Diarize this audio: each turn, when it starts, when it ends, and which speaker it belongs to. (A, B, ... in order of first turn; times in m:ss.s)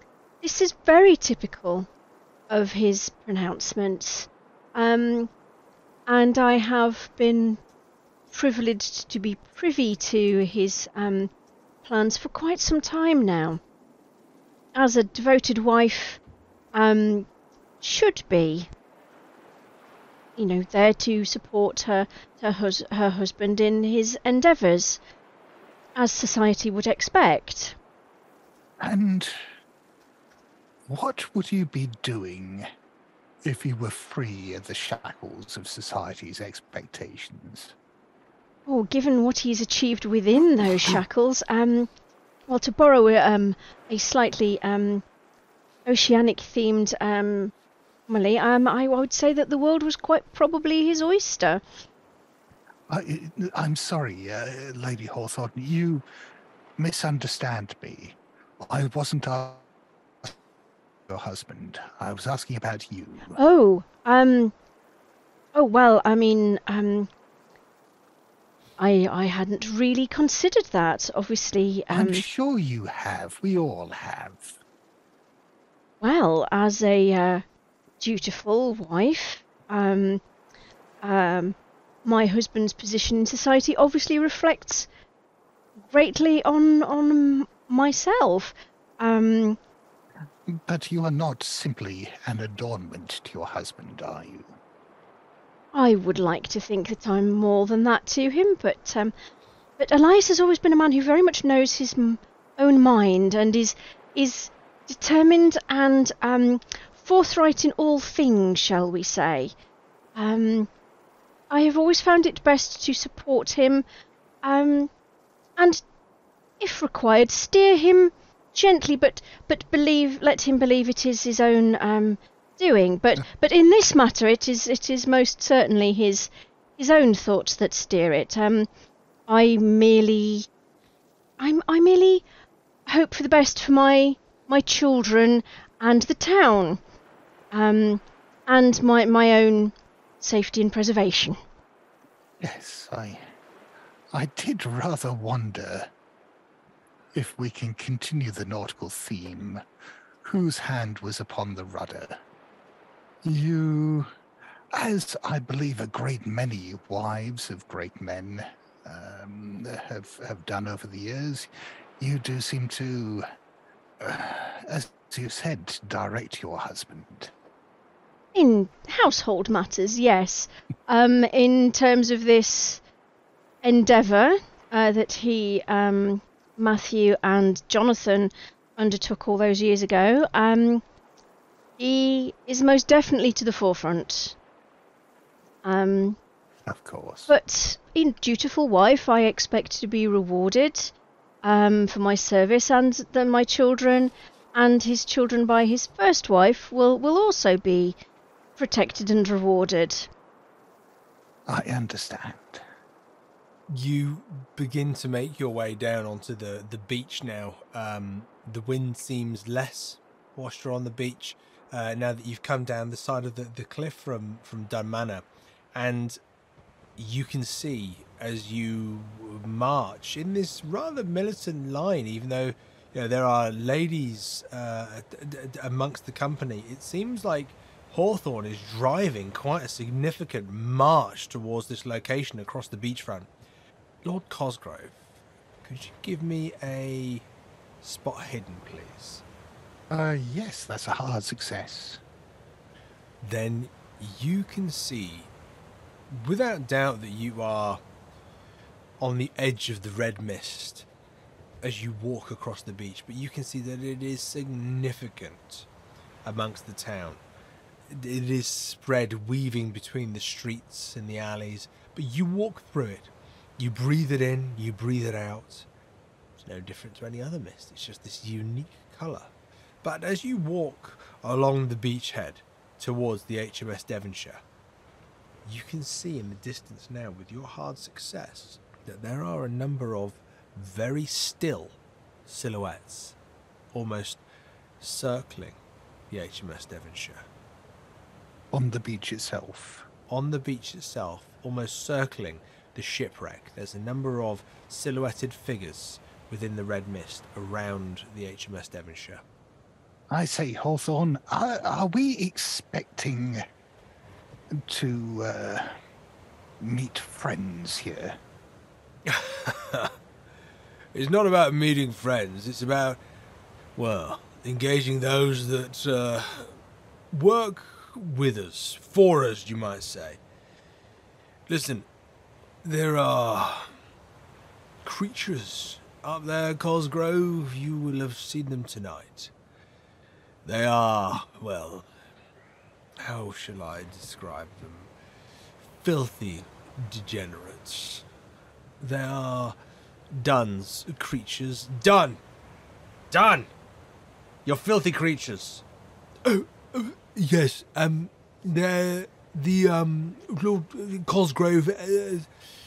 0:00.4-0:01.9 A
0:02.5-0:05.3 A
0:06.1-0:07.6 A
0:08.3-0:11.3 A
0:11.8-0:13.6 A
0:14.8-0:16.2 A
0:16.7-0:17.3 A
0:17.8-0:18.7 A
0:20.4-0:25.0 A
0:26.0-0:27.8 A
0:28.8-0:29.3 B
0:30.9-0:32.6 B
0:33.4-0:37.7 B
0:38.7-0:41.9 A
0:42.5-0:45.0 A
0:45.9-0:47.5 A
0:48.1-0:51.6 A
0:52.9-0:56.0 B
0:56.8-0:59.6 B
1:01.1-1:03.4 B
1:03.3-1:04.5 A
1:05.5-1:07.1 A
1:08.8-1:12.2 A
1:11.9-1:14.5 B
1:16.0-1:17.4 A
1:18.0-1:20.2 A
1:21.0-1:24.9 A
1:25.9-1:29.6 A
1:30.5-1:34.5 B
1:35.7-1:39.1 A
1:39.8-1:49.5 A
1:50.2-1:50.7 A
1:51.5-1:53.8 A
1:54.4-1:54.9 A
1:55.6-1:55.8 A
1:56.6-2:08.7 A
2:09.3-2:10.5 A
2:11.4-2:12.2 A
2:12.9-2:16.8 A
2:17.5-2:21.4 A
2:22.4-2:23.3 B
2:24.1-2:25.9 B
2:27.2-2:29.6 B
2:30.2-2:32.2 B
2:33.2-2:34.1 B
2:34.7-2:43.2 B
2:44.0-2:47.3 B
2:48.4-2:52.8 A
2:53.6-3:00.8 A
3:01.8-3:04.4 A
3:05.6-3:06.2 A
3:06.7-3:07.3 B
3:07.3-3:10.9 A
3:11.4-3:18.0 A
3:18.6-3:20.1 A
3:21.5-3:22.6 B
3:23.7-3:36.2 C
3:37.0-3:53.3 C
3:54.0-3:55.0 C
3:55.6-3:57.3 C
3:57.8-3:59.2 C
3:59.9-4:02.0 B
4:03.2-4:05.3 C
4:06.1-4:07.8 C
4:09.0-4:10.9 C
4:11.6-4:15.7 C
4:16.2-4:17.2 C
4:17.9-4:25.7 C
4:26.4-4:29.3 C
4:29.8-4:34.4 C
4:35.4-4:43.2 C
4:43.7-4:44.2 C
4:44.8-4:45.6 C
4:46.1-4:47.3 C
4:48.5-4:49.9 B
4:50.1-4:59.2 C
5:00.1-5:03.4 B
5:04.6-5:05.8 B
5:06.6-5:08.2 B
5:09.1-5:09.9 C
5:10.9-5:13.0 C
5:13.8-5:16.6 C
5:17.1-5:20.2 C
5:21.5-5:21.9 C
5:22.6-5:23.7 C
5:24.8-5:29.3 C
5:30.4-5:31.9 C
5:33.0-5:34.9 C
5:35.8-5:38.0 C
5:38.8-5:39.6 C
5:40.1-5:42.2 C
5:43.1-5:43.5 C
5:44.4-5:45.6 C
5:46.2-5:52.3 C